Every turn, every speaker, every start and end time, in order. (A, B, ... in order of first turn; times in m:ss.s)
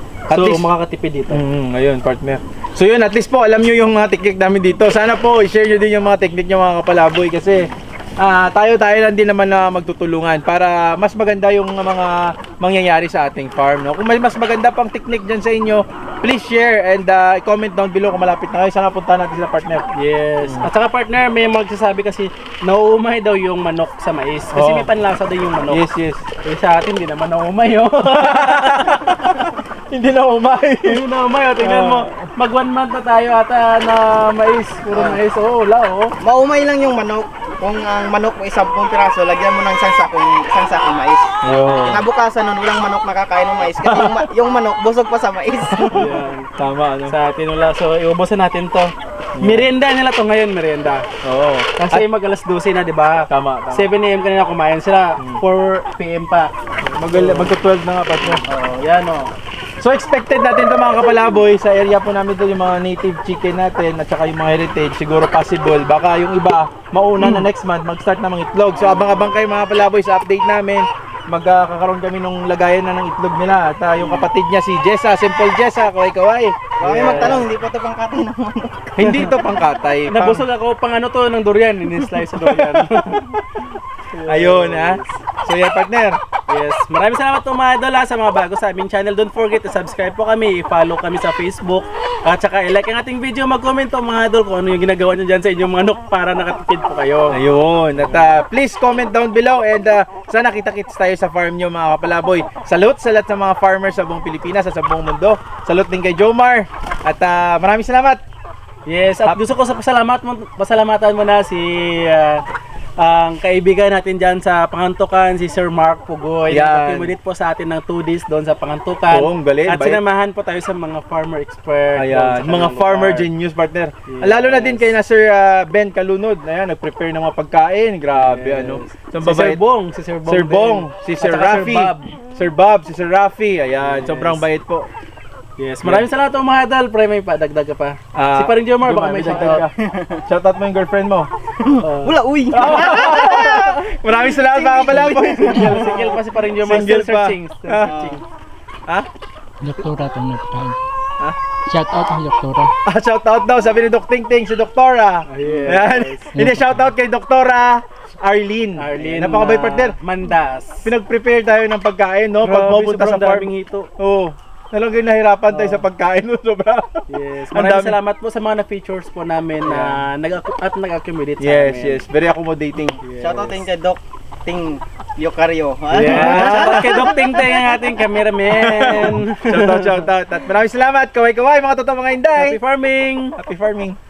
0:00.3-0:01.4 A
0:00.3-0:00.7 B
0:01.3-0:19.9 B
0:20.0-0:25.8 A
0:20.4-0:20.7 B
0:24.5-0:24.9 B
0:25.7-0:26.2 B
0:26.4-0:29.0 A
0:28.1-0:31.0 B
0:30.9-0:36.1 A
0:31.6-0:32.2 B
0:34.9-0:35.2 C
0:36.2-0:46.1 C
0:41.4-0:42.0 B
0:41.4-0:42.0 A
0:43.8-0:44.3 B
0:45.7-0:47.2 B
0:45.9-0:46.5 A
0:47.1-0:51.0 A
0:49.4-0:49.7 B
0:51.2-0:52.1 B
0:51.8-0:56.5 A
0:53.3-0:53.9 B
0:56.9-0:58.5 B
0:57.1-0:57.6 A
0:58.5-0:59.3 A
0:59.8-1:17.4 B
1:07.2-1:07.5 A
1:16.8-1:19.1 C
1:16.8-1:17.4 A
1:19.0-1:20.5 B
1:20.1-1:23.2 A
1:22.3-1:23.4 B
1:24.1-1:25.2 A
1:24.3-1:26.2 B
1:26.5-1:37.4 A
1:37.3-1:48.2 B
1:38.0-1:38.3 A
1:48.9-1:52.4 A
1:53.0-2:03.3 A
1:56.5-1:57.1 B
1:59.1-2:00.0 B
2:02.0-2:09.6 B
2:04.1-2:04.9 A
2:08.2-2:12.2 A
2:10.3-2:14.9 B
2:13.8-2:14.5 A
2:15.6-2:19.7 A
2:18.1-2:19.7 B
2:19.3-2:20.2 C
2:20.3-2:21.3 B
2:21.6-2:26.2 C
2:21.8-2:22.2 A
2:22.5-2:26.0 B
2:25.4-2:28.2 A
2:26.6-2:28.2 B
2:27.8-2:28.2 C
2:29.6-2:30.8 D
2:31.7-2:32.7 D
2:32.9-2:40.0 B
2:35.3-2:36.4 A
2:38.8-2:40.9 A
2:40.8-2:48.0 B
2:42.4-2:43.9 A
2:45.5-2:45.9 A
2:47.1-2:52.0 A
2:49.6-2:50.0 B
2:51.4-2:53.0 B
2:53.0-2:53.6 A
2:53.2-2:56.9 C
2:55.9-3:00.1 A
2:56.0-2:57.5 B
2:58.5-3:02.6 B
3:02.4-3:03.4 A
3:03.4-3:04.0 B